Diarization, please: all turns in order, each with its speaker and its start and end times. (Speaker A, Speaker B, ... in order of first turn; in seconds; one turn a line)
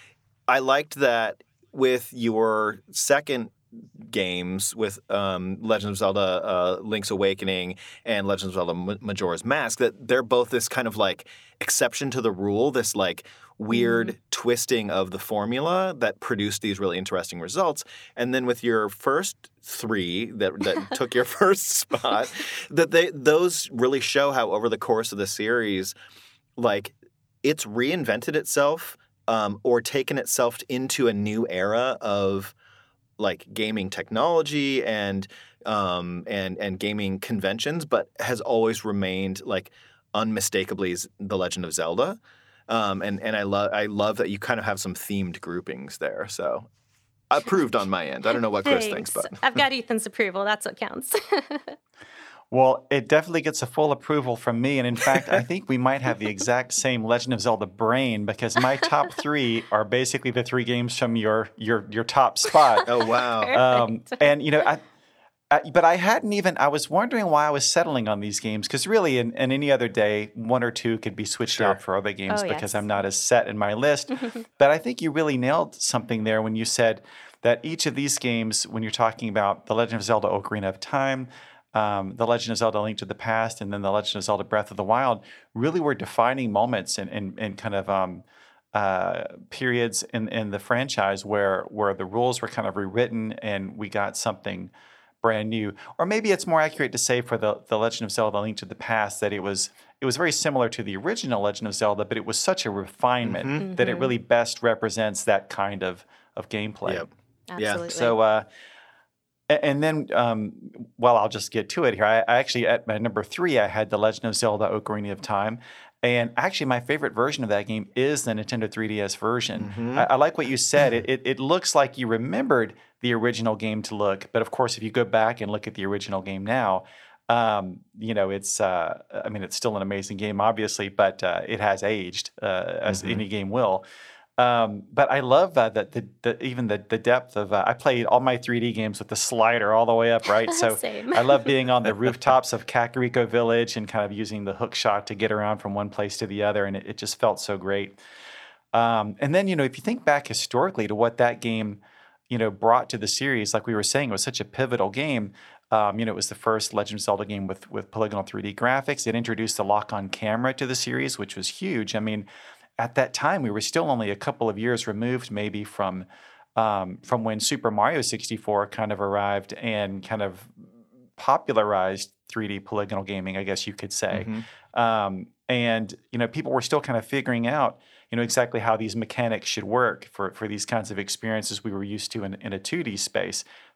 Speaker A: 0.5-25.9
Speaker B: 13.7-14.1
Speaker A: 26.6-32.5
Speaker A: 33.2-46.7
Speaker A: 47.3-49.4
Speaker B: 48.4-51.8
Speaker C: 52.5-62.9
Speaker A: 62.9-63.6
Speaker B: 62.9-64.3
Speaker C: 63.5-64.8
Speaker C: 65.5-107.1
Speaker A: 71.5-71.8
Speaker B: 72.3-72.9
Speaker A: 103.2-103.6
Speaker B: 103.6-104.1
Speaker A: 106.8-107.9
Speaker B: 107.5-108.2
Speaker C: 107.9-108.5
Speaker C: 109.5-133.8
Speaker A: 119.6-120.0
Speaker A: 132.9-133.2
Speaker C: 134.4-148.0
Speaker B: 140.4-141.5
Speaker C: 148.7-162.3
Speaker C: 162.8-170.6
Speaker C: 171.2-183.4
Speaker A: 174.1-174.4